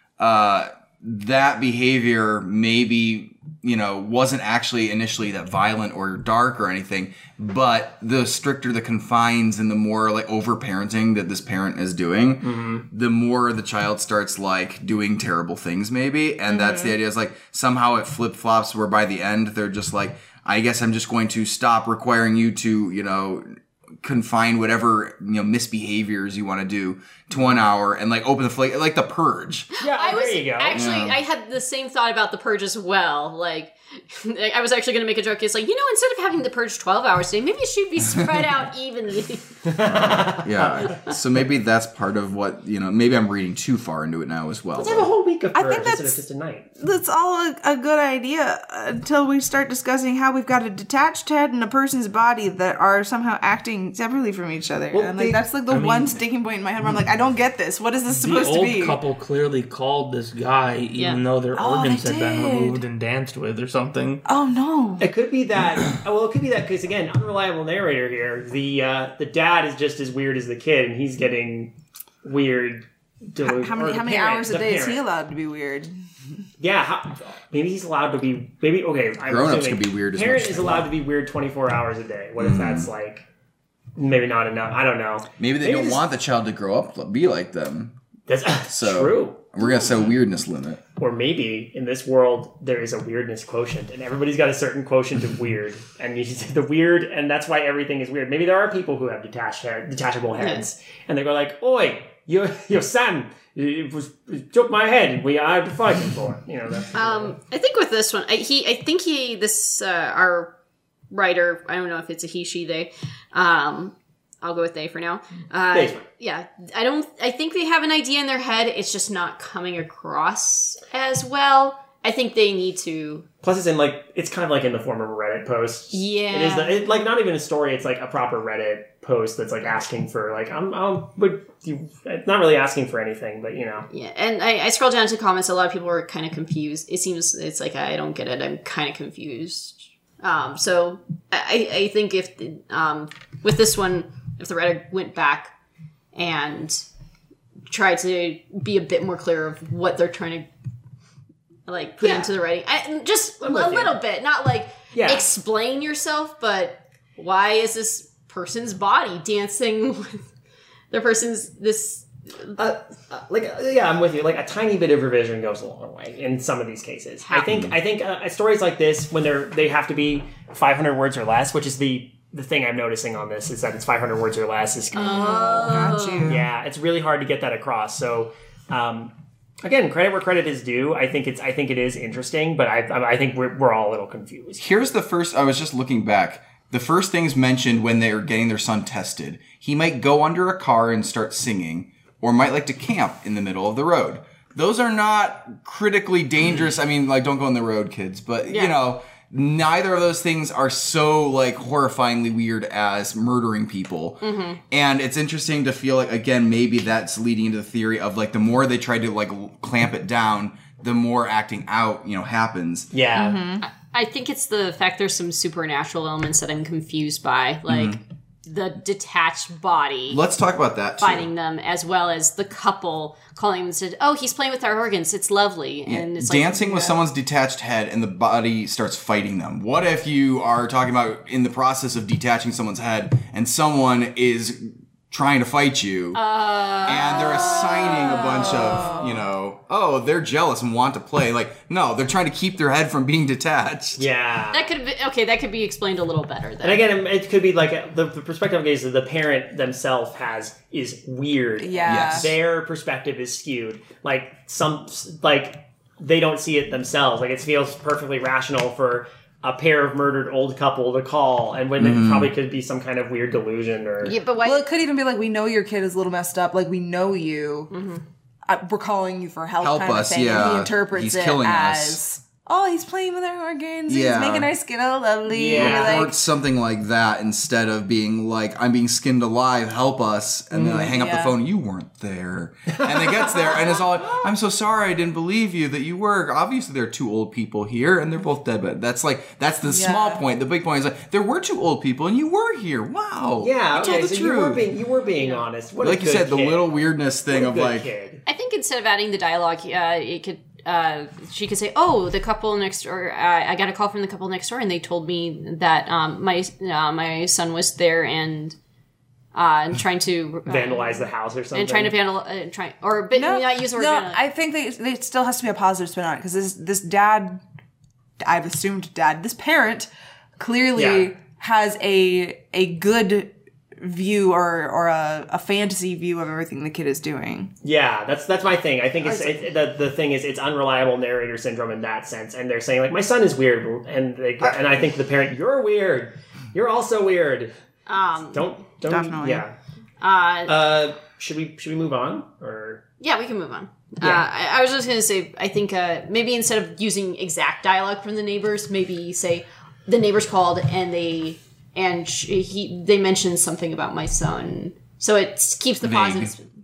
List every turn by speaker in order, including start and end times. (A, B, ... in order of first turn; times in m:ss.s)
0:00.2-0:23.4 A
0:12.4-0:12.9 B
0:16.5-0:17.0 C
0:24.0-0:29.7 A
0:29.8-0:30.8 B
0:29.8-0:39.5 D
0:30.7-0:31.2 A
0:39.6-0:41.0 B
0:39.8-0:45.1 A
0:44.8-0:46.7 B
0:45.6-0:46.2 C
0:46.8-0:59.0 C
0:54.9-0:55.4 B
0:55.7-0:56.2 E
0:58.1-1:04.2 E
1:01.0-1:01.2 D
1:01.5-1:02.8 C
1:04.3-1:05.1 C
1:05.0-1:15.0 B
1:13.4-1:15.9 C
1:16.6-1:23.2 B
1:19.2-1:20.9 A
1:22.4-1:22.9 A
1:24.0-1:26.0 B
1:25.4-1:28.0 A
1:28.3-1:29.5 B
1:28.7-1:30.8 A
1:31.0-1:47.4 B
1:40.4-1:40.7 D
1:46.9-1:50.6 D
1:51.1-2:03.2 D
1:55.7-1:56.0 B
2:03.4-2:13.9 B
2:05.9-2:06.8 D
2:13.9-2:25.5 D
2:26.1-2:26.8 D
2:27.7-2:30.5 D
2:31.7-2:40.2 D
2:32.0-2:32.3 B
2:33.4-2:34.0 B
2:34.9-2:35.3 B
2:40.9-2:42.6 D
2:42.6-2:59.1 B
2:47.2-2:47.5 D
2:47.5-2:47.7 A
2:54.9-2:56.3 D
2:55.6-2:56.4 C
2:59.6-3:04.6 B
3:04.6-3:32.9 A
3:18.4-3:18.7 D
3:24.2-3:24.6 D
3:32.9-3:33.4 B
3:33.1-3:33.6 C
3:33.6-3:40.2 D
3:37.7-3:38.0 A
3:40.1-3:41.3 A
3:41.0-3:47.0 D
3:45.9-3:56.2 A
3:56.1-3:59.1 D
3:56.8-4:04.0 A
3:58.4-3:58.9 C
4:04.0-4:04.7 B
4:04.5-4:06.8 D
4:06.6-4:24.2 B
4:11.6-4:12.3 C
4:11.9-4:12.4 A
4:21.8-4:22.3 A
4:24.0-4:24.7 D
4:24.4-4:27.7 C
4:27.7-4:28.0 D
4:28.4-4:36.2 C
4:29.6-4:32.0 A
4:33.9-4:34.5 A
4:35.3-4:36.1 B
4:35.5-4:54.7 A
4:40.5-4:41.4 C
4:43.0-4:43.8 B
4:49.6-4:50.2 C
4:53.4-4:56.7 B
4:55.1-4:55.4 D
4:55.8-4:57.9 A
4:57.3-4:58.2 B
4:58.3-5:08.6 D
5:09.3-5:14.2 D
5:10.5-5:12.0 B
5:13.1-5:17.4 C
5:18.2-5:27.5 C
5:20.7-5:21.1 B
5:27.6-5:37.5 B
5:29.0-5:29.4 C
5:37.9-5:38.5 D
5:38.3-5:39.6 B
5:38.9-5:39.4 C
5:40.0-5:40.6 D
5:40.5-5:42.8 B
5:43.0-5:56.5 D
5:55.8-5:56.3 A